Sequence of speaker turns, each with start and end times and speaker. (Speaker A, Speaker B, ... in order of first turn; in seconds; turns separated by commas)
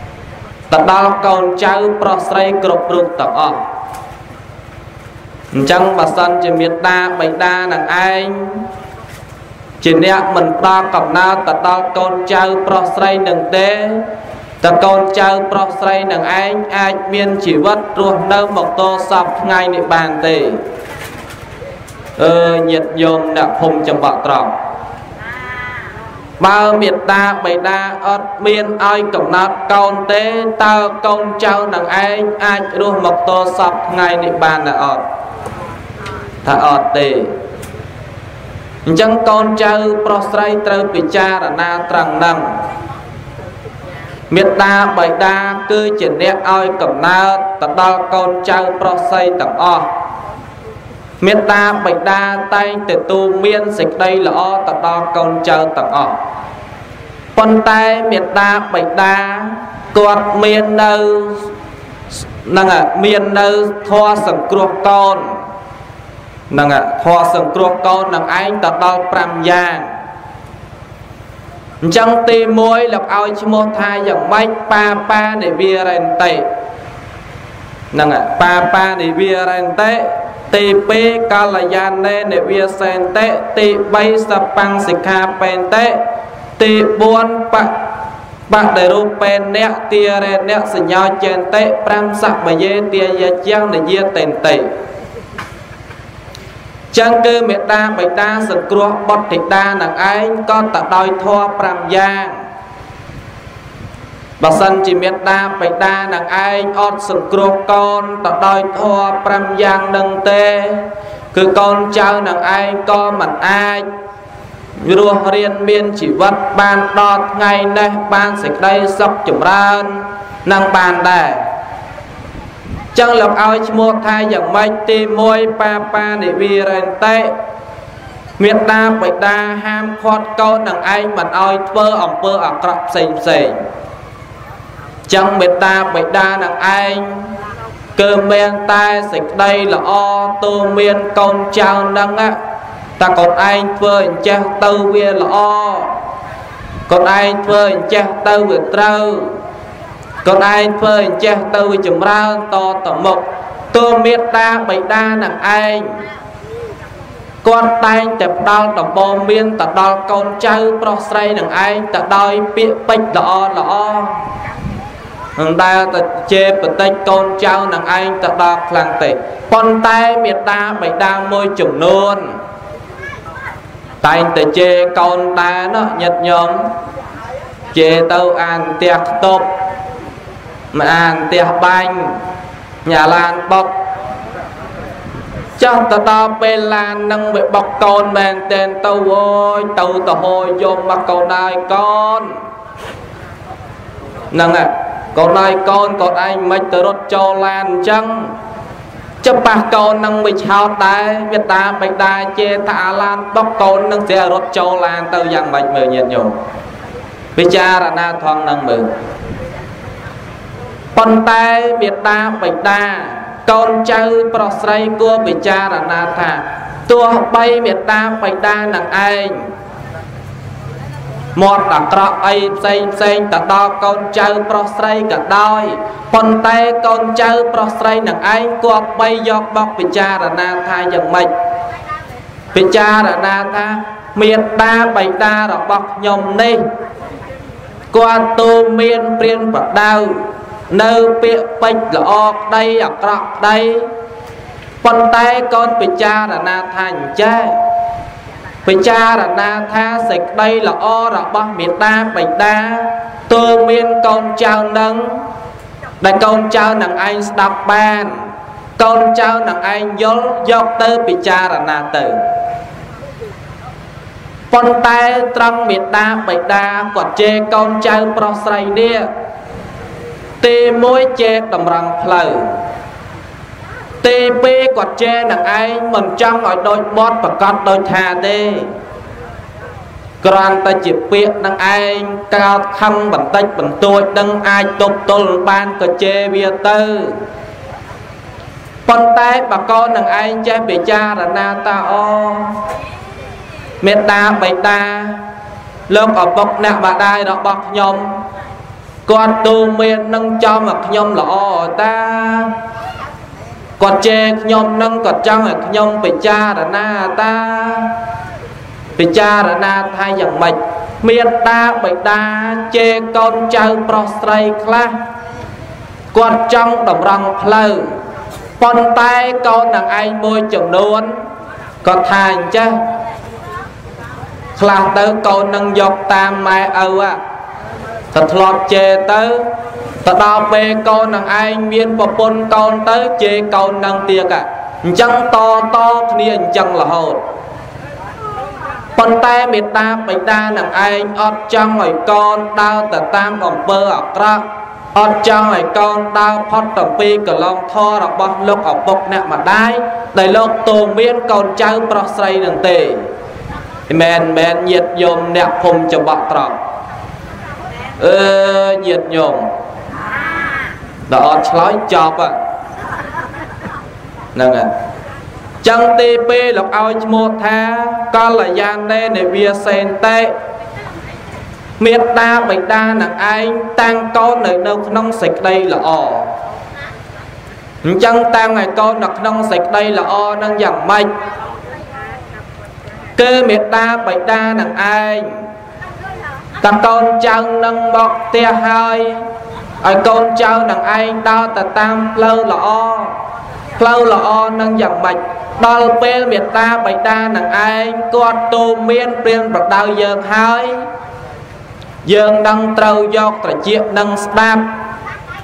Speaker A: 0.7-3.6, Speaker A: 5.5-8.6, Speaker A: 9.8-14.0, Speaker A: 14.6-20.6, Speaker A: 22.2-24.6, Speaker A: 26.4-35.0, Speaker A: 36.4-37.4, Speaker A: 38.9-42.6, Speaker A: 44.3-49.9, Speaker A: 51.2-56.2, Speaker A: 57.4-61.5, Speaker A: 62.5-65.4, Speaker A: 66.5-69.9, Speaker A: 71.8-76.5, Speaker A: 77.9-86.0, Speaker A: 86.6-87.8, Speaker A: 88.5-94.7, Speaker A: 96.9-102.4, Speaker A: 104.4-113.9, Speaker A: 114.8-121.5, Speaker A: 122.9-127.3, Speaker A: 128.4-133.6, Speaker A: 135.1-137.3, Speaker A: 138.0-142.4, Speaker A: 143.0-146.0, Speaker A: 146.9-149.4, Speaker A: 150.2-156.0, Speaker A: 157.4-164.2, Speaker A: 165.4-172.4, Speaker A: 174.0-176.7, Speaker A: 177.7-179.5, Speaker A: 180.7-182.2, Speaker A: 182.8-183.7, Speaker A: 185.6-192.3, Speaker A: 194.3-198.3, Speaker A: 199.2-206.4, Speaker A: 207.4-208.9, Speaker A: 210.9-219.5, Speaker A: 221.4-231.3, Speaker A: 232.5-236.6, Speaker A: 237.9-243.9, Speaker A: 244.8-247.6, Speaker A: 248.7-255.3, Speaker A: 256.0-262.2, Speaker A: 264.5-269.1, Speaker A: 270.4-272.6, Speaker A: 274.0-278.7, Speaker A: 280.2-287.2, Speaker A: 288.9-292.6, Speaker A: 293.8-295.3, Speaker A: 295.9-298.2, Speaker A: 299.1-302.5, Speaker A: 303.8-308.0, Speaker A: 309.0-315.0, Speaker A: 316.1-317.9, Speaker A: 318.6-321.1, Speaker A: 321.8-322.8, Speaker A: 324.6-327.2, Speaker A: 328.1-329.5, Speaker A: 330.0-337.2, Speaker A: 339.0-353.1, Speaker A: 353.9-356.6, Speaker A: 358.0-359.5, Speaker A: 361.1-362.4, Speaker A: 364.4-364.7, Speaker A: 365.6-370.3, Speaker A: 371.8-376.4, Speaker A: 377.8-381.1, Speaker A: 383.2-385.3, Speaker A: 386.6-389.2, Speaker A: 389.8-393.2, Speaker A: 393.8-400.8, Speaker A: 402.0-404.8